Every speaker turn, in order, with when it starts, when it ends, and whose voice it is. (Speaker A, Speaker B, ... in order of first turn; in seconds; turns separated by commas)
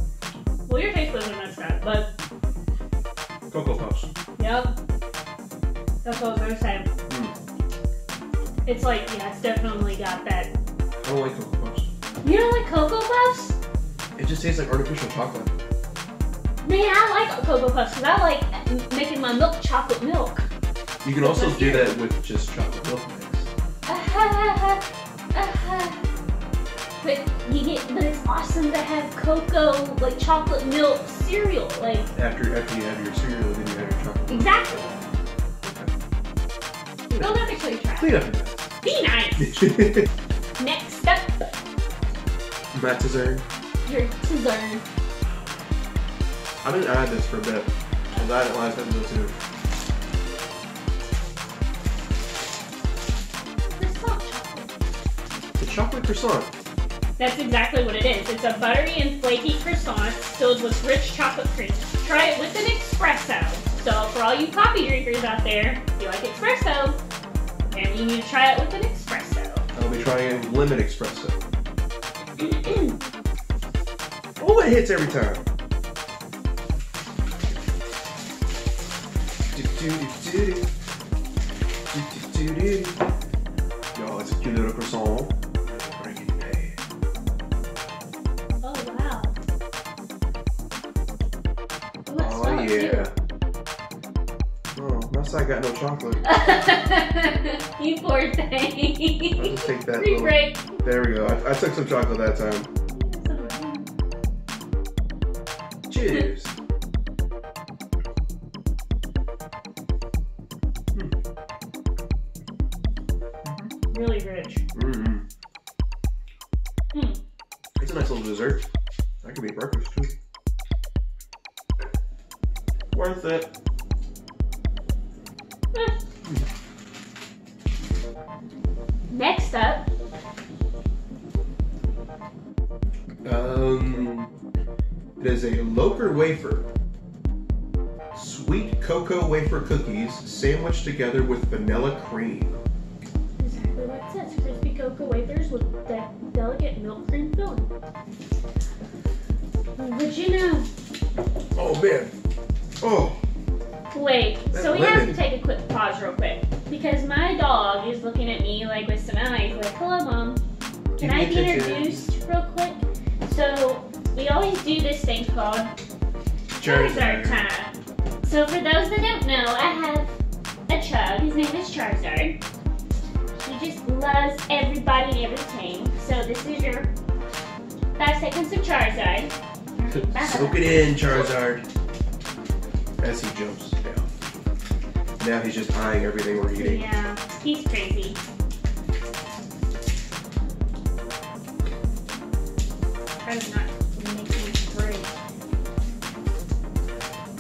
Speaker A: 0.7-2.1, Speaker B: 3.5-4.1, Speaker A: 4.4-4.8, Speaker A: 6.0-6.9, Speaker B: 7.1-7.3, Speaker A: 8.7-10.5, Speaker B: 11.0-11.9, Speaker A: 12.2-13.6, Speaker B: 14.2-15.5, Speaker A: 16.6-20.5, Speaker B: 21.0-23.5, Speaker A: 21.2-21.9, Speaker A: 23.9-26.0, Speaker A: 27.0-32.1, Speaker B: 32.1-34.6, Speaker A: 34.3-35.0, Speaker B: 35.6-35.9, Speaker B: 37.1-38.7, Speaker A: 37.1-38.2, Speaker A: 38.8-39.8, Speaker B: 39.4-40.1, Speaker A: 40.6-41.5, Speaker B: 42.7-43.4, Speaker A: 43.9-44.8, Speaker B: 46.6-49.4, Speaker A: 53.8-54.7, Speaker B: 55.6-56.5, Speaker A: 57.2-67.0, Speaker A: 67.7-69.7, Speaker B: 69.8-71.4, Speaker A: 72.4-72.9, Speaker B: 74.4-75.5, Speaker B: 79.5-80.7, Speaker B: 81.9-83.0, Speaker B: 83.9-86.8, Speaker A: 88.6-89.3, Speaker A: 92.1-93.1, Speaker B: 92.2-93.1, Speaker B: 94.7-96.2, Speaker A: 96.2-100.8, Speaker B: 99.3-102.7, Speaker A: 103.0-103.9, Speaker B: 105.9-106.5, Speaker B: 113.4-113.7, Speaker A: 113.9-114.6, Speaker B: 114.7-115.2, Speaker A: 116.9-117.2, Speaker B: 117.8-118.6, Speaker B: 119.2-120.1, Speaker B: 122.9-123.5, Speaker A: 129.1-129.9, Speaker B: 133.2-134.3, Speaker B: 135.2-136.7, Speaker B: 138.1-142.5, Speaker A: 143.4-147.7, Speaker A: 149.8-150.7, Speaker B: 151.5-152.1, Speaker B: 152.8-153.2, Speaker A: 153.9-160.4, Speaker B: 154.5-155.2, Speaker B: 161.0-162.1, Speaker A: 161.0-165.7, Speaker B: 166.6-167.4, Speaker A: 166.6-167.7, Speaker A: 168.2-170.1, Speaker A: 170.7-172.4, Speaker A: 173.4-176.9, Speaker A: 178.0-181.3, Speaker B: 180.1-181.6, Speaker B: 183.0-184.1, Speaker B: 185.2-186.8, Speaker A: 186.5-188.2, Speaker A: 193.2-195.1